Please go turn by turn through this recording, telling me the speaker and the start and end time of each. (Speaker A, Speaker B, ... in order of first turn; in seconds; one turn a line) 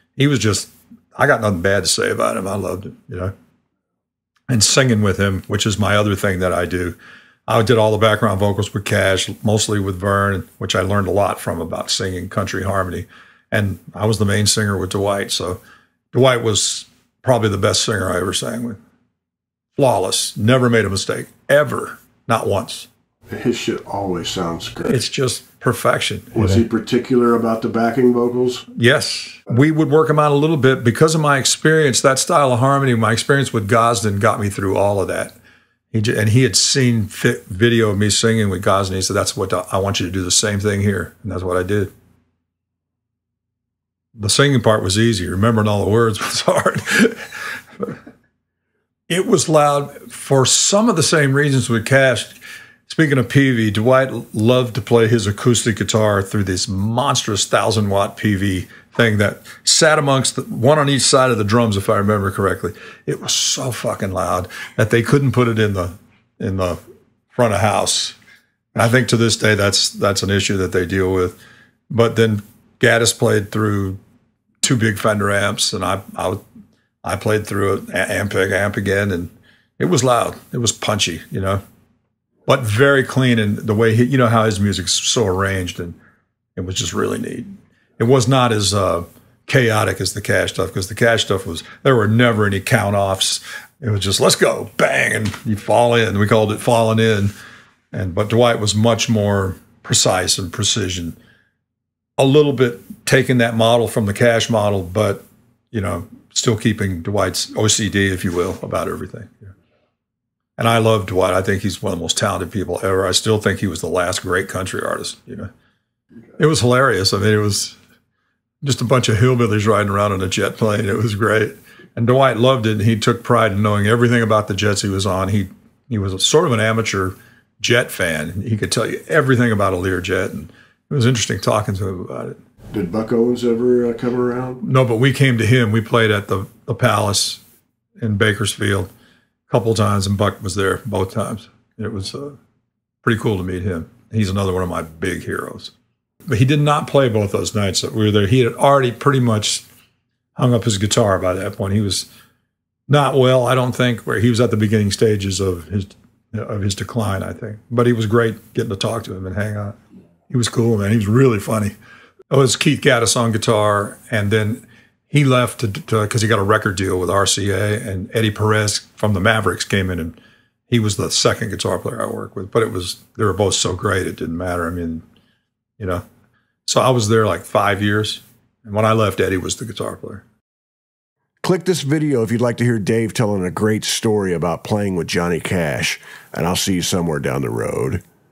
Speaker A: 0.2-3.3
Speaker A: 4.5-7.0
Speaker A: 7.5-15.6
Speaker A: 16.1-18.8
Speaker A: 19.8-22.9
Speaker B: 23.3-25.0
Speaker A: 24.9-26.6
Speaker B: 26.3-28.6
Speaker A: 28.7-35.3
Speaker A: 35.9-41.9
Speaker A: 44.1-48.0
Speaker A: 49.1-52.3
Speaker A: 52.9-66.8
Speaker A: 67.3-68.2
Speaker A: 68.7-71.4
Speaker A: 71.9-74.0
Speaker A: 74.6-76.4
Speaker A: 77.0-81.6
Speaker A: 82.5-86.0
Speaker A: 86.5-97.3
Speaker A: 97.9-101.2
Speaker A: 102.2-109.5
Speaker A: 110.6-115.5
Speaker A: 116.4-117.8
Speaker A: 118.6-132.4
Speaker B: 132.7-134.6
Speaker A: 134.6-137.4
Speaker A: 138.0-138.9
Speaker A: 139.5-142.3
Speaker A: 143.0-145.7
Speaker A: 146.3-149.6
Speaker A: 150.3-152.1
Speaker A: 152.9-159.7
Speaker A: 160.3-161.7
Speaker A: 162.3-170.2
Speaker A: 170.7-175.0
Speaker A: 176.7-180.2
Speaker B: 181.4-188.0